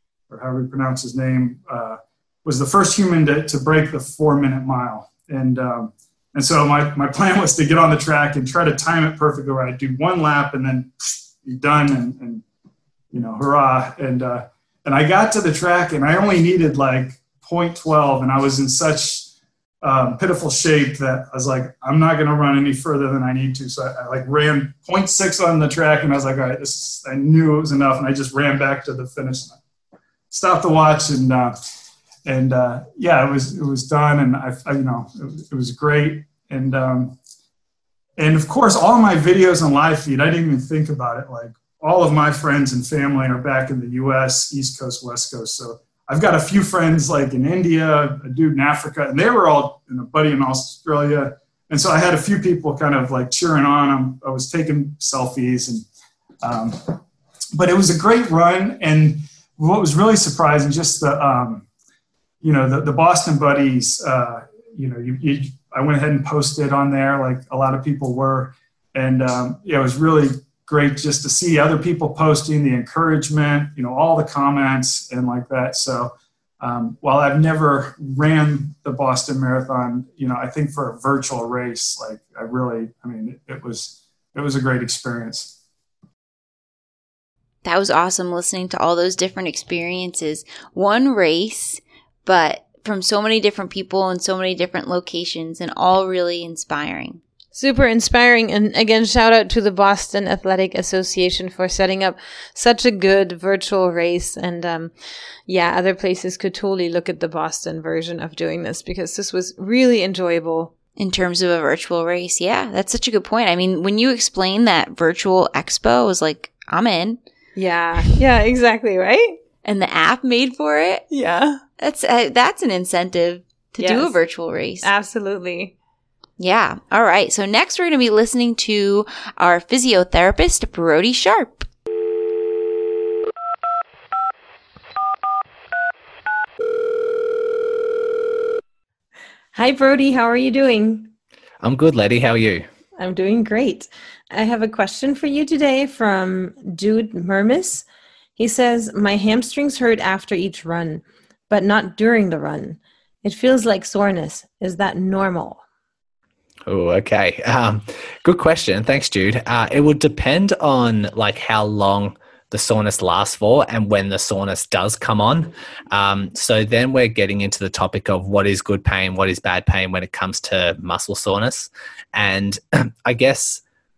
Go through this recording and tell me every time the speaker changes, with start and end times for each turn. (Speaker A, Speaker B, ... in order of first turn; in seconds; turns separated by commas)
Speaker A: 0.3-12.4, Speaker A: 13.1-19.3, Speaker A: 19.8-29.6, Speaker A: 30.3-31.5, Speaker A: 32.3-37.2, Speaker A: 38.2-55.9, Speaker A: 56.4-56.9, Speaker A: 57.5-61.7, Speaker A: 62.4-85.6, Speaker B: 87.6-97.2, Speaker C: 97.5-104.9, Speaker C: 105.5-110.7, Speaker B: 111.0-117.2, Speaker C: 117.6-119.4, Speaker B: 119.6-121.1, Speaker C: 121.1-121.6, Speaker B: 121.8-124.9, Speaker C: 123.8-124.2, Speaker C: 124.8-125.7, Speaker B: 126.4-131.7, Speaker C: 139.5-141.1, Speaker D: 141.6-142.7, Speaker C: 143.0-147.8, Speaker C: 148.4-155.6, Speaker D: 156.7-173.6